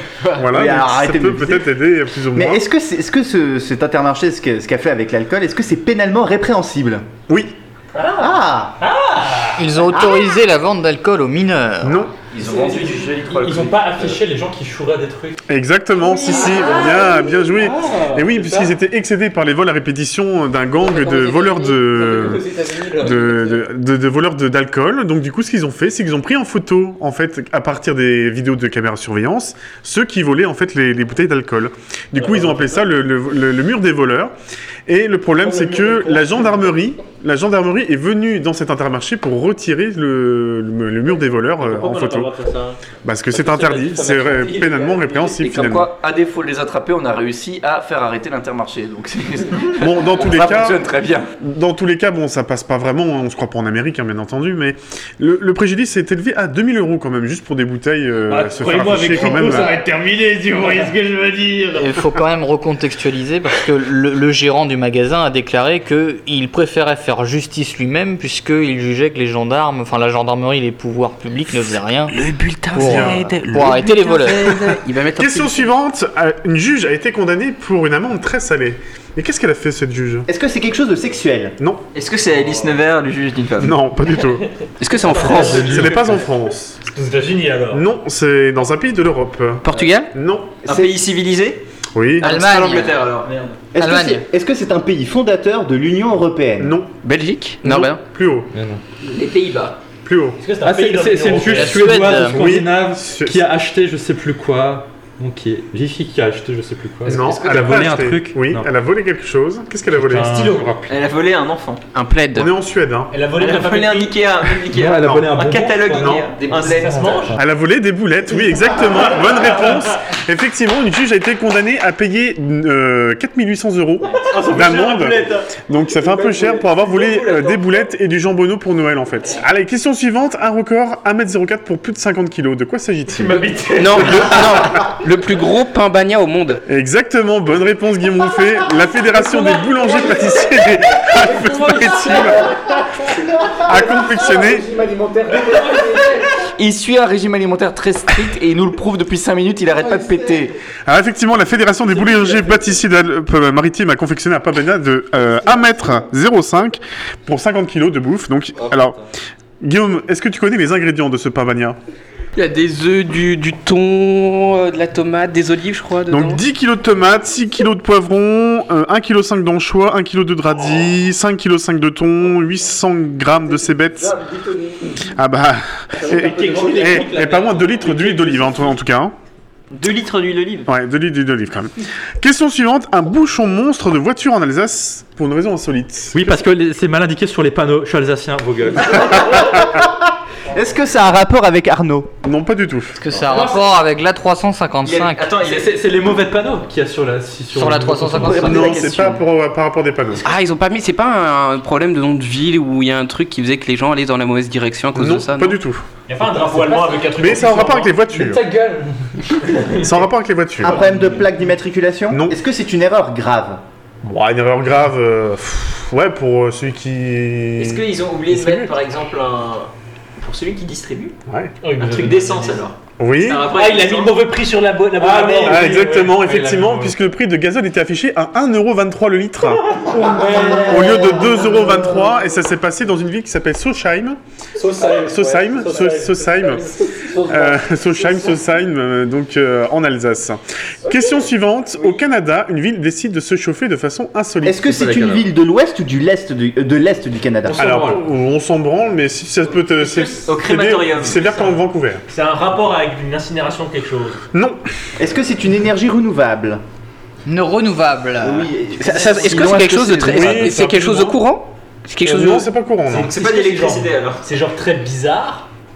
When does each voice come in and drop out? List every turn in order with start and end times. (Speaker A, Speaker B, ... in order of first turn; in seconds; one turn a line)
Speaker A: 0.3-2.6
Speaker B: 0.4-1.7
Speaker B: 2.3-7.1
Speaker A: 7.3-7.5
Speaker C: 8.0-8.3
Speaker B: 8.2-8.8
Speaker C: 8.8-9.7
Speaker D: 9.6-12.0
Speaker B: 9.9-10.3
Speaker A: 11.8-12.2
Speaker E: 12.3-14.2
Speaker F: 12.4-15.4
Speaker A: 15.5-34.3
Speaker F: 16.0-18.7
Speaker G: 21.3-21.7
Speaker F: 22.0-23.5
Speaker C: 32.2-32.7
Speaker A: 34.9-42.4
Speaker C: 35.4-36.3
Speaker C: 41.6-42.8
Speaker A: 43.0-45.9
Speaker C: 43.6-43.9
Speaker F: 43.9-45.2
Speaker E: 45.4-51.3
Speaker A: 49.8-50.8
Speaker A: 51.4-59.8
Speaker C: 58.3-61.9
Speaker D: 61.8-74.6
Speaker G: 72.1-75.7
Speaker A: 72.8-73.4
Speaker A: 75.2-80.3
Speaker B: 80.3-81.6
Speaker A: 81.6-81.8
Speaker H: 81.9-83.8
Speaker C: 82.4-82.6
Speaker A: 83.6-84.5
Speaker G: 84.8-85.9
Speaker C: 85.0-86.3
Speaker A: 85.2-86.8
Speaker C: 86.9-87.8
Speaker A: 87.7-90.6
Speaker G: 89.6-90.1
Speaker H: 90.6-91.6
Speaker B: 90.7-90.9
Speaker A: 92.0-92.3
Speaker D: 92.2-93.0
Speaker H: 92.2-93.6
Speaker B: 93.7-96.8
Speaker D: 93.8-94.2
Speaker A: 96.6-96.9
Speaker G: 97.0-98.0
Speaker A: 97.7-98.5
Speaker F: 98.5-98.8
Speaker H: 99.0-99.8
Speaker A: 100.0-100.4
Speaker C: 100.4-102.0
Speaker F: 100.6-108.7
Speaker D: 101.5-102.4
Speaker A: 102.2-103.4
Speaker A: 107.0-110.7
Speaker H: 107.1-107.7
Speaker C: 110.1-110.7
Speaker F: 110.1-110.9
Speaker H: 110.9-111.8
Speaker G: 111.9-112.5
Speaker A: 112.3-113.1
Speaker C: 113.1-114.1
Speaker H: 113.4-117.3
Speaker F: 114.7-117.3
Speaker A: 115.0-115.3
Speaker A: 115.9-116.3
Speaker C: 116.5-117.4
Speaker A: 117.3-133.5
Speaker C: 119.3-119.9
Speaker C: 124.2-125.2
Speaker F: 124.3-125.0
Speaker C: 133.2-134.6
Speaker G: 133.8-136.6
Speaker A: 136.7-142.6
Speaker A: 143.6-144.7
Speaker E: 145.1-145.7
Speaker F: 145.6-146.0
Speaker E: 146.4-150.5
Speaker A: 150.9-159.0
Speaker E: 158.6-158.9
Speaker A: 159.6-161.8
Speaker G: 162.4-166.4
Speaker A: 166.1-174.2
Speaker F: 174.1-174.4
Speaker A: 175.1-179.1
Speaker F: 176.0-178.0
Speaker C: 176.3-178.4
Speaker H: 179.7-180.7
Speaker A: 180.7-186.3
Speaker F: 186.1-189.6
Speaker B: 189.6-189.9
Speaker B: 190.5-192.1
Speaker A: 192.2-193.0
Speaker D: 193.0-195.3
Speaker F: 193.2-193.7
Speaker H: 194.8-195.7
Speaker F: 195.4-198.6
Speaker D: 197.5-198.8
Speaker A: 198.3-200.2
Speaker B: 198.5-199.1
Speaker G: 200.2-205.6
Speaker A: 204.9-205.8
Speaker C: 206.1-208.1
Speaker F: 206.2-207.1
Speaker A: 207.1-208.4
Speaker F: 208.2-208.9
Speaker C: 209.5-209.8
Speaker A: 209.8-210.8
Speaker B: 210.6-213.6
Speaker A: 212.1-212.4
Speaker A: 214.0-218.7
Speaker H: 217.6-221.2
Speaker A: 221.3-221.5
Speaker C: 221.6-222.6
Speaker H: 221.8-224.2
Speaker A: 223.0-223.5
Speaker C: 223.5-226.9
Speaker F: 225.0-226.0
Speaker A: 225.4-229.6
Speaker F: 229.7-231.9
Speaker A: 230.5-234.2
Speaker F: 234.6-236.3
Speaker A: 234.8-245.1
Speaker F: 237.0-238.3
Speaker B: 244.4-247.6
Speaker C: 247.5-248.0
Speaker A: 247.6-252.0
Speaker H: 249.8-251.6
Speaker C: 252.1-254.2
Speaker A: 254.3-254.6
Speaker B: 255.0-256.6
Speaker D: 257.3-258.5
Speaker B: 258.2-260.5
Speaker G: 258.8-262.5
Speaker A: 260.1-261.2
Speaker A: 262.0-263.1
Speaker C: 262.9-265.5
Speaker H: 262.9-264.2